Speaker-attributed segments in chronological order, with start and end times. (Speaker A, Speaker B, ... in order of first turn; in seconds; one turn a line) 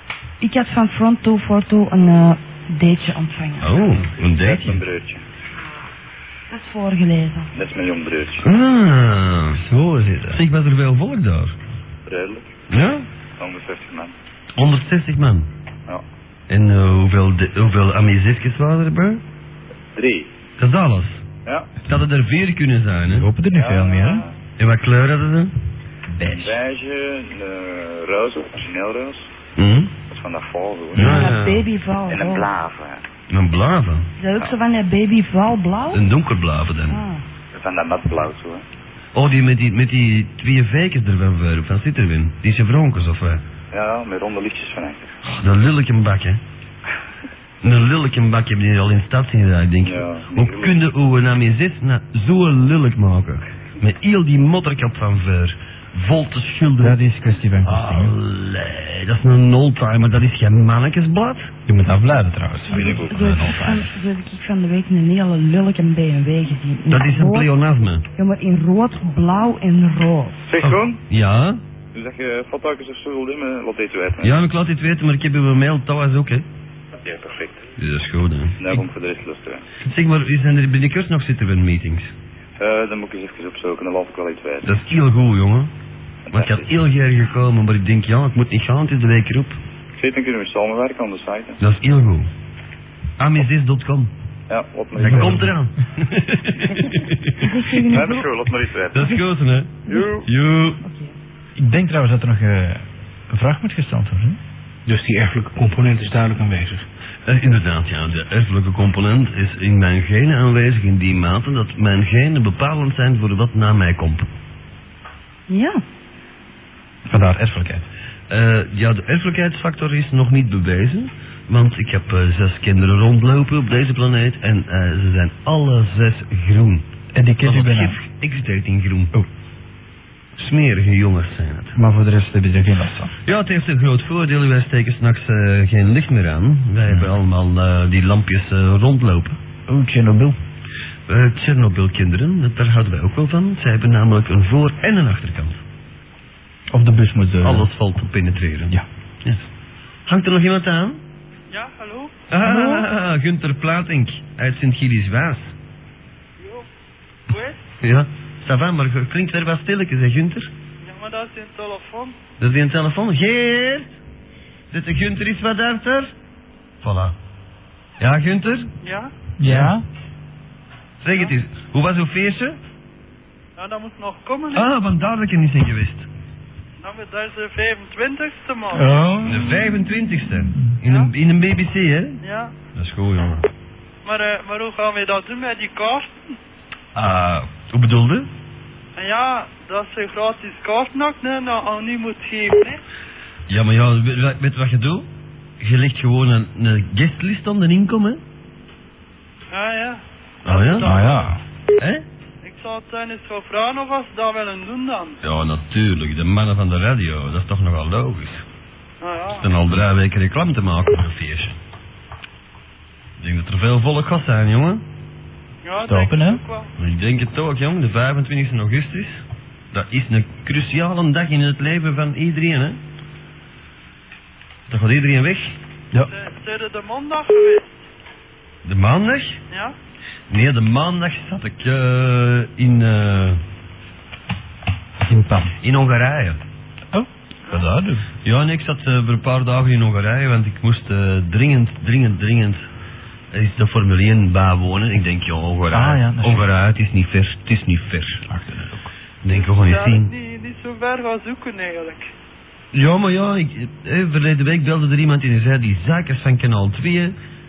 Speaker A: 0.4-3.8
Speaker B: 3.6-4.8
Speaker C: 4.3-5.2
Speaker A: 6.5-7.5
Speaker C: 7.5-8.5
Speaker B: 8.4-9.6
Speaker D: 9.6-10.4
Speaker B: 10.3-11.6
Speaker C: 12.1-12.5
Speaker B: 12.7-13.1
Speaker C: 13.4-14.1
Speaker B: 14.6-15.5
Speaker B: 16.5-19.2
Speaker C: 19.9-20.3
Speaker B: 20.6-21.2
Speaker C: 21.5-21.7
Speaker B: 21.9-23.3
Speaker D: 23.1-24.3
Speaker C: 23.5-24.3
Speaker B: 24.6-25.5
Speaker D: 26.1-26.6
Speaker C: 26.2-29.3
Speaker B: 29.6-29.9
Speaker C: 30.1-31.2
Speaker B: 31.0-31.6
Speaker D: 31.0-31.3
Speaker A: 31.0-32.5
Speaker C: 32.1-33.0
Speaker B: 33.3-34.1
Speaker A: 34.2-36.0
Speaker B: 35.9-37.0
Speaker A: 36.9-37.2
Speaker C: 37.5-38.6
Speaker B: 39.1-43.4
Speaker C: 43.7-45.1
Speaker B: 45.2-46.4
Speaker B: 47.6-57.0
Speaker C: 49.8-50.8
Speaker D: 56.8-58.2
Speaker B: 57.6-61.5
Speaker D: 61.7-64.0
Speaker A: 62.7-67.5
Speaker C: 62.7-63.2
Speaker B: 66.9-68.0
Speaker A: 68.2-70.4
Speaker C: 70.4-71.0
Speaker B: 70.6-71.6
Speaker C: 71.9-74.4
Speaker B: 74.2-76.5
Speaker C: 77.0-77.6
Speaker B: 77.8-78.8
Speaker C: 78.6-79.6
Speaker B: 79.8-82.1
Speaker C: 82.6-84.7
Speaker B: 84.6-85.7
Speaker C: 86.3-86.7
Speaker B: 86.3-89.6
Speaker C: 90.0-91.6
Speaker B: 91.6-92.3
Speaker B: 93.2-94.1
Speaker C: 94.5-95.5
Speaker D: 95.0-95.5
Speaker B: 95.0-97.4
Speaker A: 97.4-98.3
Speaker C: 97.9-99.2
Speaker B: 98.9-100.8
Speaker C: 99.9-100.3
Speaker A: 100.8-101.2
Speaker D: 101.6-104.4
Speaker E: 104.9-106.9
Speaker B: 107.3-114.3
Speaker A: 115.5-115.8
Speaker D: 117.1-117.9
Speaker B: 118.3-126.8
Speaker D: 127.2-128.0
Speaker B: 127.4-129.1
Speaker B: 130.4-131.8
Speaker D: 131.8-133.1
Speaker B: 133.2-139.4
Speaker D: 136.9-137.1
Speaker D: 139.7-140.3
Speaker B: 141.1-145.6
Speaker D: 146.7-147.7
Speaker B: 147.4-149.4
Speaker B: 150.1-151.0
Speaker F: 151.5-152.2
Speaker B: 152.3-155.6
Speaker F: 156.4-156.7
Speaker F: 157.3-157.7
Speaker B: 157.8-160.5
Speaker F: 160.8-162.2
Speaker B: 162.4-163.9
Speaker B: 164.7-166.1
Speaker B: 166.8-167.2
Speaker B: 168.0-168.7
Speaker F: 168.8-169.1
Speaker D: 169.4-169.8
Speaker B: 169.4-169.7
Speaker B: 171.0-172.6
Speaker F: 173.6-174.7
Speaker B: 174.5-176.1
Speaker F: 176.8-179.0
Speaker D: 178.7-179.7
Speaker B: 179.2-182.2
Speaker F: 180.8-181.1
Speaker F: 182.2-182.5
Speaker B: 182.8-183.5
Speaker F: 184.1-186.4
Speaker B: 186.9-188.3
Speaker F: 189.0-192.8
Speaker B: 193.5-195.1
Speaker B: 195.6-198.2
Speaker F: 199.5-201.3
Speaker B: 200.4-201.0
Speaker D: 200.8-201.4
Speaker B: 201.8-202.1
Speaker F: 202.4-205.2
Speaker B: 205.2-208.4
Speaker F: 209.0-209.5
Speaker B: 209.3-211.6
Speaker B: 213.2-214.8
Speaker F: 215.6-216.7
Speaker D: 215.8-216.4
Speaker B: 216.8-222.8
Speaker B: 224.7-225.6
Speaker F: 226.1-227.8
Speaker B: 228.7-229.4
Speaker F: 229.5-229.8
Speaker B: 230.3-233.4
Speaker D: 235.1-235.5
Speaker B: 235.6-236.4
Speaker D: 236.9-238.1
Speaker B: 238.2-242.6
Speaker B: 243.3-248.3
Speaker D: 245.7-246.5
Speaker D: 248.3-248.9
Speaker B: 249.2-250.1
Speaker F: 249.3-252.1
Speaker B: 252.7-257.1